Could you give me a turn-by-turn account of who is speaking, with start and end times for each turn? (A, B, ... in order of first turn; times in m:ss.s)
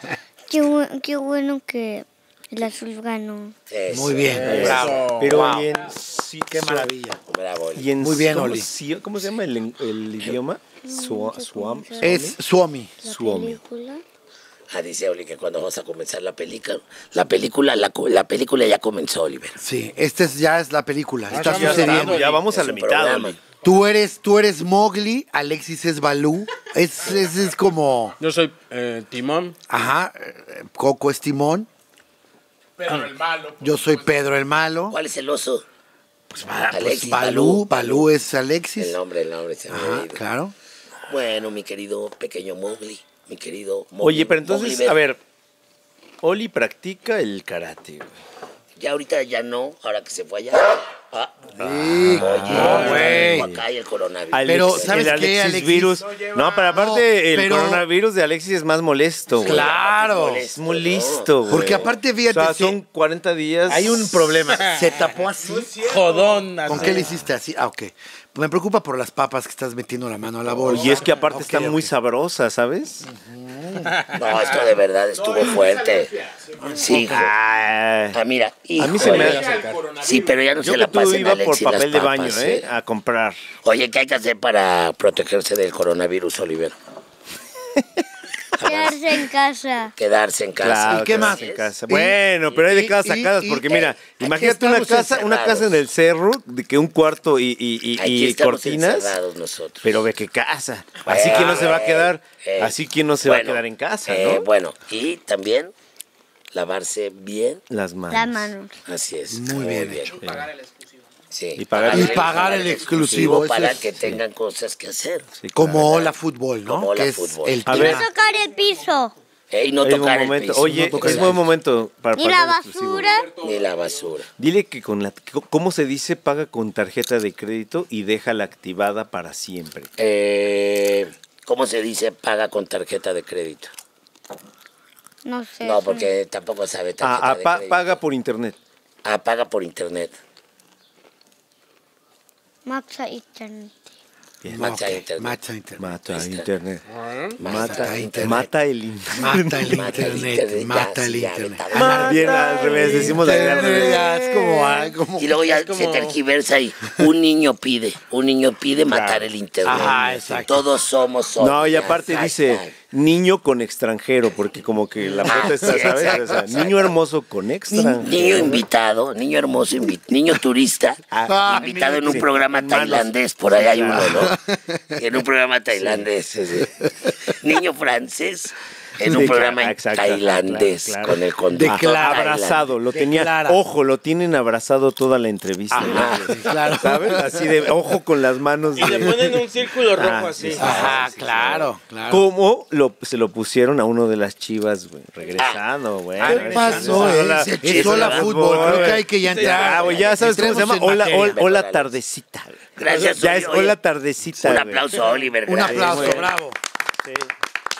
0:00.5-0:03.6 A
0:03.7-0:04.9 B
0:03.9-0:05.9 C
0:04.3-0:05.6 D
0:04.4-0:06.9 E
0:06.5-0:07.2 C
0:07.3-0:07.9 B
0:07.8-0:12.4 E
0:08.0-0:08.7 C
0:10.8-0:12.2 A
0:12.0-0:13.0 C
0:13.0-0:14.0 A
0:13.0-0:13.6 E
0:14.7-0:19.6 B
0:19.6-0:22.2 C
0:21.3-0:22.4 D
0:21.3-0:23.4 E
0:22.3-0:23.4 B
0:23.6-0:28.2 C
0:28.2-0:29.6 D
0:29.7-0:31.7 C
0:32.8-0:34.2 F
0:33.6-0:35.0 C
0:34.9-0:35.6 B
0:36.3-0:39.0 C
0:36.7-0:38.1 B
0:38.8-0:40.2 B
0:39.7-0:40.5 C
0:41.1-0:45.0 B
0:44.0-0:45.2 E
0:46.2-0:48.2 E
0:48.8-0:55.1 B
0:51.6-0:53.5 C
0:51.6-0:53.6 E
0:52.5-0:53.2 D
0:54.3-0:59.8 E
0:54.4-0:56.0 C
0:56.0-0:57.0 F
0:56.7-0:57.9 C
0:59.3-1:01.9 B
0:59.4-1:00.5 C
1:00.6-1:04.3 E
1:01.5-1:02.8 C
1:03.7-1:05.8 C
1:04.5-1:05.0 D
1:05.4-1:07.0 F
1:05.8-1:07.0 D
1:06.7-1:11.9 C
1:10.6-1:11.2 F
1:10.6-1:13.1 E
1:13.0-1:14.0 C
1:14.1-1:16.1 B
1:14.4-1:17.1 F
1:16.6-1:17.2 C
1:16.8-1:17.3 B
1:16.9-1:18.2 E
1:18.1-1:22.7 B
1:18.8-1:19.7 E
1:19.0-1:20.5 F
1:19.3-1:19.7 D
1:20.6-1:23.4 E
1:23.6-1:26.8 B
1:28.6-1:29.0 B
1:28.6-1:29.9 A
1:30.0-1:31.7 B
1:30.6-1:39.2 E
1:30.8-1:35.0 C
1:33.6-1:35.8 B
1:38.0-1:40.1 B
1:39.8-1:44.5 E
1:41.0-1:45.7 B
1:46.5-1:47.6 B
1:47.7-1:48.5 E
1:48.1-1:48.7 A
1:48.9-1:50.2 B
1:49.3-1:50.1 C
1:50.1-1:50.9 F
1:50.2-1:50.5 E
1:51.3-1:55.3 B
1:51.6-1:53.4 E
1:51.9-1:53.9 C
1:55.4-1:55.9 E
1:55.5-1:58.1 C
1:55.8-1:56.1 B
1:56.6-1:57.7 B
1:57.6-1:58.1 E
1:57.7-1:59.1 A
1:58.1-1:58.9 F
1:59.5-2:01.4 B
1:59.8-2:03.1 E
2:00.6-2:01.5 C
2:02.2-2:03.4 A
2:03.0-2:04.2 F
2:03.4-2:04.3 B
2:04.4-2:09.9 E
2:10.0-2:13.7 B
2:15.2-2:16.1 A
2:15.6-2:18.0 B
2:17.0-2:18.6 E
2:19.0-2:20.2 B
2:22.7-2:23.8 A
2:24.4-2:24.7 E
2:24.5-2:26.0 C
2:24.6-2:25.4 B
2:25.8-2:26.8 E
2:26.1-2:26.5 B
2:26.9-2:27.4 D
2:27.4-2:28.5 B
2:27.4-2:30.0 E
2:27.5-2:28.5 C
2:29.1-2:35.4 C
2:29.7-2:32.3 B
2:31.7-2:34.1 D
2:31.8-2:34.9 E
2:32.8-2:33.1 A
2:35.2-2:42.7 B
2:35.5-2:36.2 D
2:38.9-2:39.3 E
2:39.6-2:40.7 C
2:41.4-2:48.6 E
2:45.2-2:46.9 B
2:45.4-2:45.8 C
2:47.7-2:54.4 B
2:47.8-2:48.4 C
2:51.1-2:54.3 E
2:51.2-2:52.3 C
2:53.9-2:55.0 C
2:55.0-3:02.7 B
2:59.0-3:25.0 E
3:01.5-3:03.6 C
3:05.7-3:07.7 C
3:05.8-3:06.4 B
3:08.8-3:10.9 D
3:08.9-3:09.2 C
3:10.6-3:12.2 C
3:10.6-3:11.0 B
3:15.4-3:15.6 B
3:16.2-3:19.0 B
3:16.2-3:21.4 C
3:19.1-3:20.0 D
3:19.7-3:20.4 B
3:21.1-3:22.0 B
3:22.8-3:23.8 B
3:24.4-3:26.3 B
3:25.4-3:26.6 C
3:25.7-3:26.3 E
3:27.0-3:27.3 E